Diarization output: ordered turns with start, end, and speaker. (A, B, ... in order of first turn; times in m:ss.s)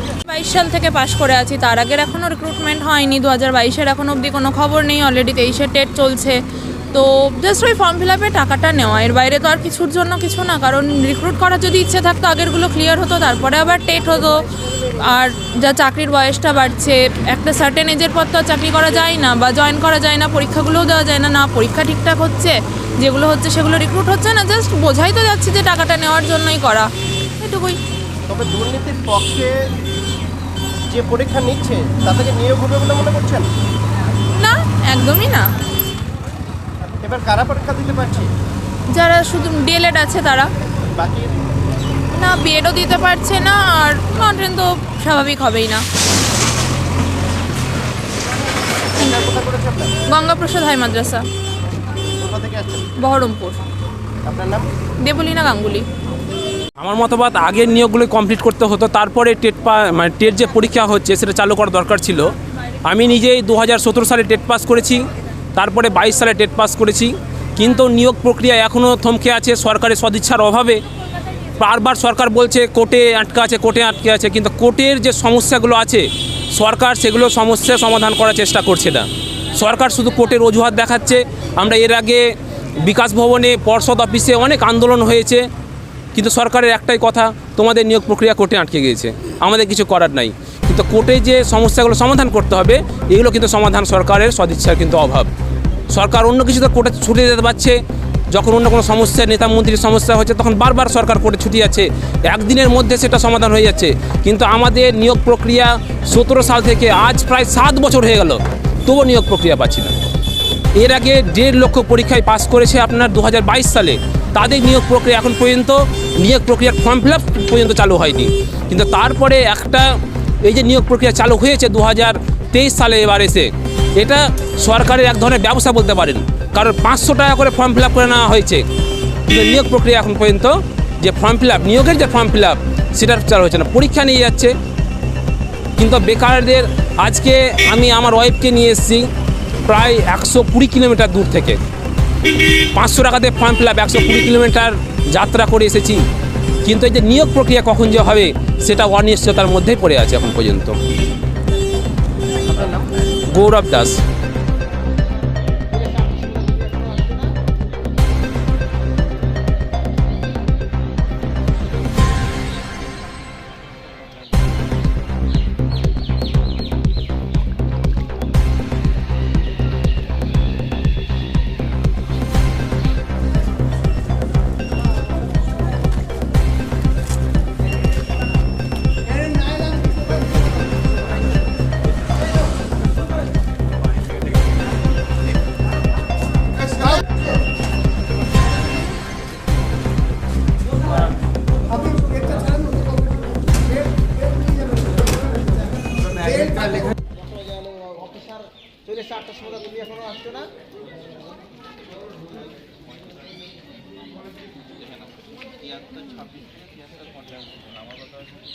0:00.2-0:06.4 A
0:06.9-0:27.8 A
0:28.3-0:29.5 B
0:30.9-0:33.5 B
0:34.4-0:35.5 A
0:37.0-0:38.3 B
0:38.9-0:40.5 A
0:40.9-0:41.3 B
0:42.1-0:45.8 A
0:49.0-0:49.9 B
0:50.1-0:51.2 A
0:52.2-0:52.9 B
0:53.0-0:53.6 A
0:54.2-0:54.7 B
0:55.0-0:55.8 A
0:56.8-1:02.3 C
1:02.8-1:05.0 C
1:05.6-1:10.8 C
1:11.6-1:22.2 C
1:22.9-1:25.4 C
1:26.2-1:35.3 C
1:35.9-1:37.8 C
1:38.3-1:49.9 C
1:50.8-2:08.6 C
2:09.3-2:14.5 C
2:15.8-2:19.0 C
2:19.7-2:21.6 C
2:22.8-2:26.0 C
2:26.6-2:30.8 C
2:32.5-2:32.8 B
2:33.3-2:34.0 C
2:35.7-2:37.2 D
3:18.9-3:20.4 D